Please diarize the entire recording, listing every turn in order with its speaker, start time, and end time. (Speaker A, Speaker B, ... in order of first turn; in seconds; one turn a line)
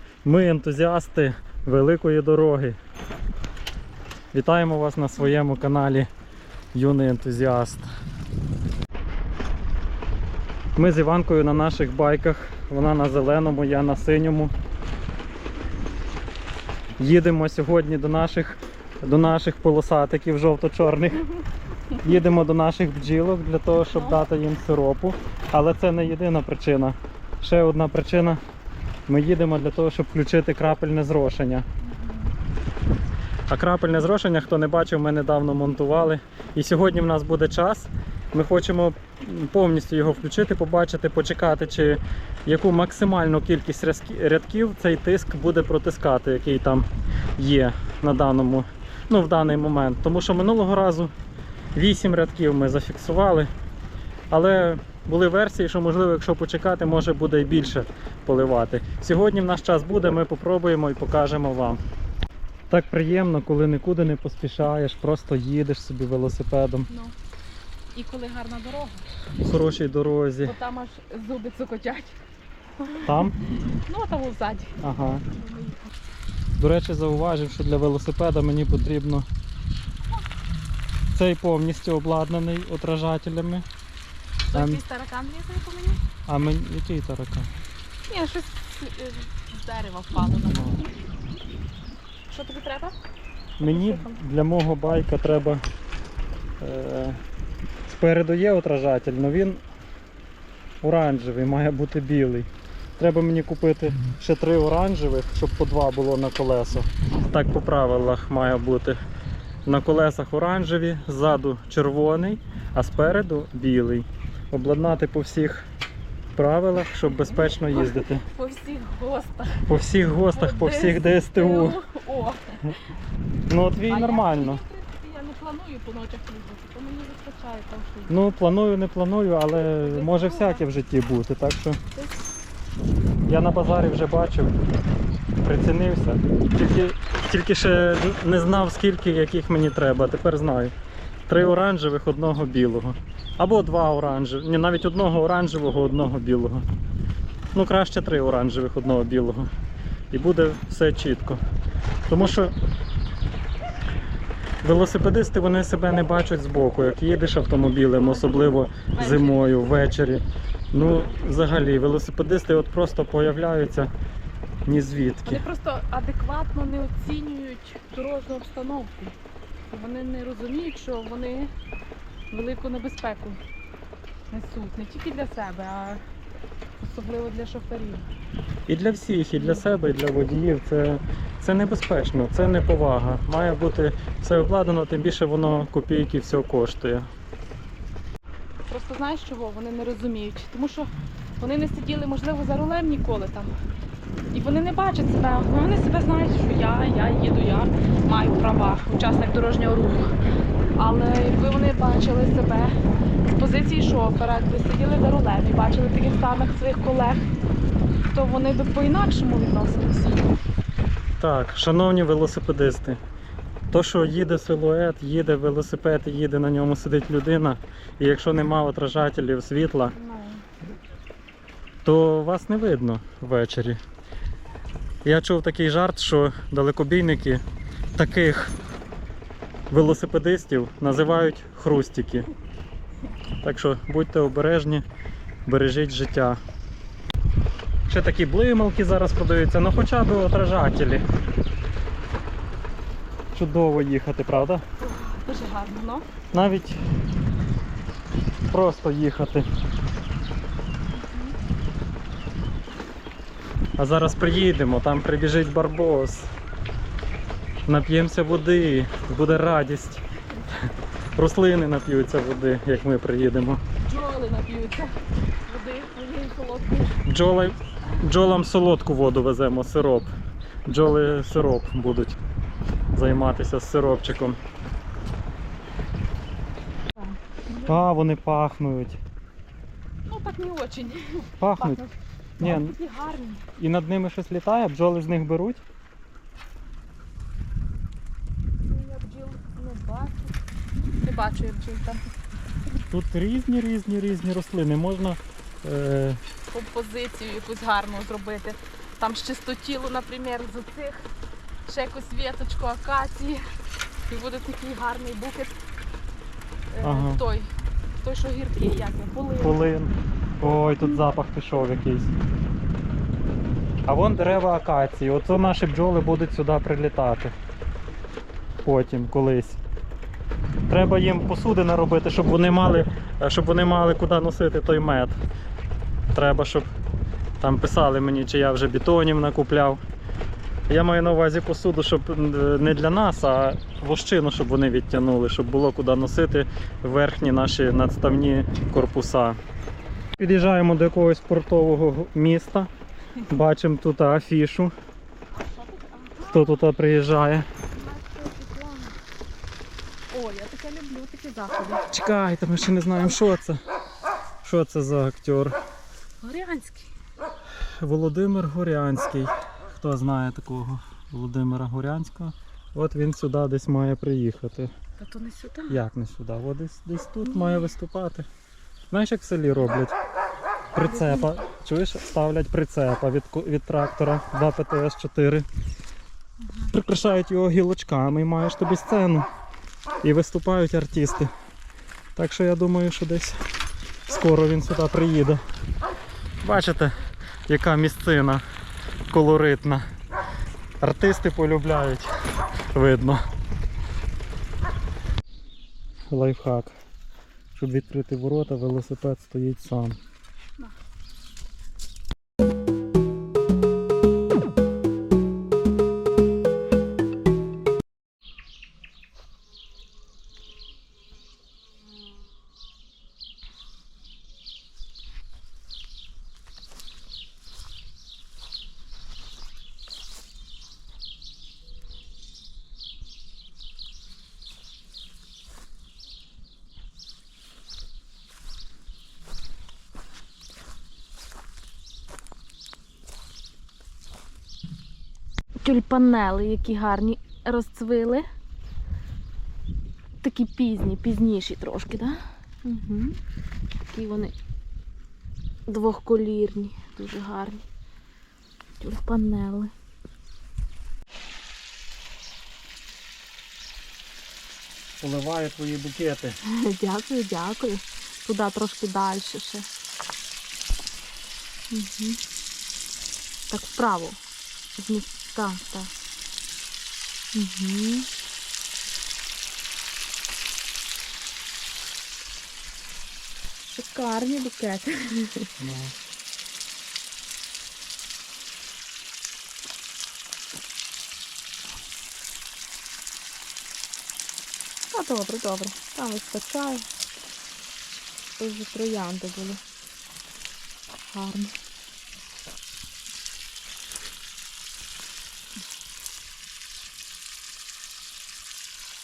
Speaker A: 0.2-2.8
Speaker A: 4.3-6.1
Speaker A: 6.7-7.9
Speaker A: 10.8-14.5
Speaker A: 17.0-21.3
Speaker A: 22.0-28.4
Speaker B: 23.9-24.2
Speaker A: 29.1-31.6
Speaker B: 31.8-32.3
Speaker A: 33.5-51.1
Speaker A: 51.8-53.5
Speaker A: 54.3-61.8
Speaker A: 62.7-66.9
Speaker B: 66.9-67.2
Speaker B: 67.9-69.1
Speaker A: 69.4-70.5
Speaker B: 70.4-72.2
Speaker B: 72.8-76.0
Speaker A: 73.0-73.4
Speaker A: 74.8-75.2
Speaker A: 76.6-79.3
Speaker A: 81.1-83.7
Speaker B: 84.5-86.0
Speaker A: 84.5-84.8
Speaker A: 86.3-87.5
Speaker B: 88.1-90.9
Speaker A: 90.5-90.8
Speaker B: 92.3-93.0
Speaker A: 93.6-95.6
Speaker B: 93.7-94.2
Speaker A: 96.6-97.2
Speaker A: 97.9-99.6
Speaker A: 100.8-109.0
Speaker A: 109.7-115.7
Speaker A: 116.3-118.3
Speaker B: 117.0-119.7
Speaker A: 119.6-121.8
Speaker B: 120.3-122.8
Speaker A: 123.5-124.6
Speaker B: 123.9-128.3
Speaker A: 128.1-131.8
Speaker B: 129.5-130.7
Speaker B: 131.9-132.3
Speaker A: 133.3-134.6
Speaker A: 135.4-140.7
Speaker A: 141.3-146.7
Speaker A: 147.5-149.5
Speaker A: 150.1-151.4
Speaker A: 152.1-152.6
Speaker A: 154.6-163.9
Speaker B: 158.8-159.6
Speaker A: 164.7-165.4
Speaker B: 165.2-169.2
Speaker B: 169.7-171.5
Speaker B: 172.3-173.4
Speaker B: 174.3-176.0
Speaker B: 176.8-178.1
Speaker A: 178.7-187.1
Speaker B: 179.3-179.6
Speaker B: 188.7-193.6
Speaker B: 194.3-200.1
Speaker B: 200.8-202.8
Speaker B: 203.3-207.3
Speaker B: 208.1-210.3
Speaker A: 211.2-213.0
Speaker A: 213.7-219.9
Speaker B: 219.9-220.5
Speaker A: 221.8-223.8
Speaker A: 225.1-227.4
Speaker A: 227.9-228.5
Speaker A: 229.7-232.3
Speaker A: 233.4-234.9
Speaker A: 235.4-236.4
Speaker A: 237.9-241.1
Speaker A: 243.3-244.6
Speaker B: 244.8-246.1
Speaker A: 246.3-246.8
Speaker A: 248.5-249.5
Speaker B: 250.9-251.4
Speaker A: 253.8-256.3
Speaker A: 257.7-263.6
Speaker B: 263.8-264.9
Speaker B: 265.5-267.1
Speaker A: 267.1-270.1
Speaker A: 270.7-272.2
Speaker A: 272.9-274.4
Speaker B: 277.0-277.9
Speaker A: 277.6-279.0
Speaker B: 280.1-283.5
Speaker A: 281.4-281.8
Speaker A: 282.4-282.7
Speaker A: 283.6-285.6
Speaker B: 288.6-290.4
Speaker B: 291.0-292.1
Speaker A: 292.9-296.2
Speaker B: 296.5-301.1
Speaker B: 301.7-303.4
Speaker B: 304.1-305.6
Speaker B: 306.7-309.7
Speaker A: 306.8-307.2
Speaker A: 309.4-312.1
Speaker B: 310.6-311.0
Speaker A: 313.9-317.3
Speaker A: 318.6-319.6
Speaker A: 320.7-325.2
Speaker A: 326.1-326.7
Speaker A: 327.4-329.8
Speaker A: 330.7-339.4
Speaker A: 340.2-342.7
Speaker A: 343.3-344.7
Speaker B: 345.4-346.7
Speaker A: 346.2-347.5
Speaker B: 347.7-349.0
Speaker B: 350.1-351.9
Speaker A: 351.9-353.6
Speaker A: 354.4-355.6
Speaker B: 356.2-356.9
Speaker A: 357.7-364.7
Speaker B: 365.0-365.8
Speaker A: 365.7-368.3
Speaker B: 367.2-367.7
Speaker A: 368.9-369.9
Speaker A: 370.7-375.5
Speaker B: 370.8-371.3
Speaker A: 376.6-379.3
Speaker A: 380.0-381.3
Speaker A: 382.2-383.4
Speaker A: 384.1-385.4
Speaker A: 386.4-387.0
Speaker A: 387.5-388.4
Speaker A: 389.1-389.9
Speaker A: 390.8-392.1
Speaker A: 392.7-393.2
Speaker A: 396.1-396.8
Speaker A: 397.6-400.0
Speaker B: 435.6-438.3
Speaker B: 440.2-443.2
Speaker B: 443.9-444.4
Speaker B: 445.7-447.6
Speaker B: 448.8-449.7
Speaker A: 455.0-456.4
Speaker B: 456.4-459.7
Speaker B: 461.7-462.2
Speaker B: 463.5-464.2
Speaker B: 464.8-465.9
Speaker B: 467.3-468.1
Speaker B: 473.7-475.5
Speaker A: 475.6-475.9
Speaker B: 484.9-486.9
Speaker B: 488.4-489.6
Speaker B: 491.1-491.6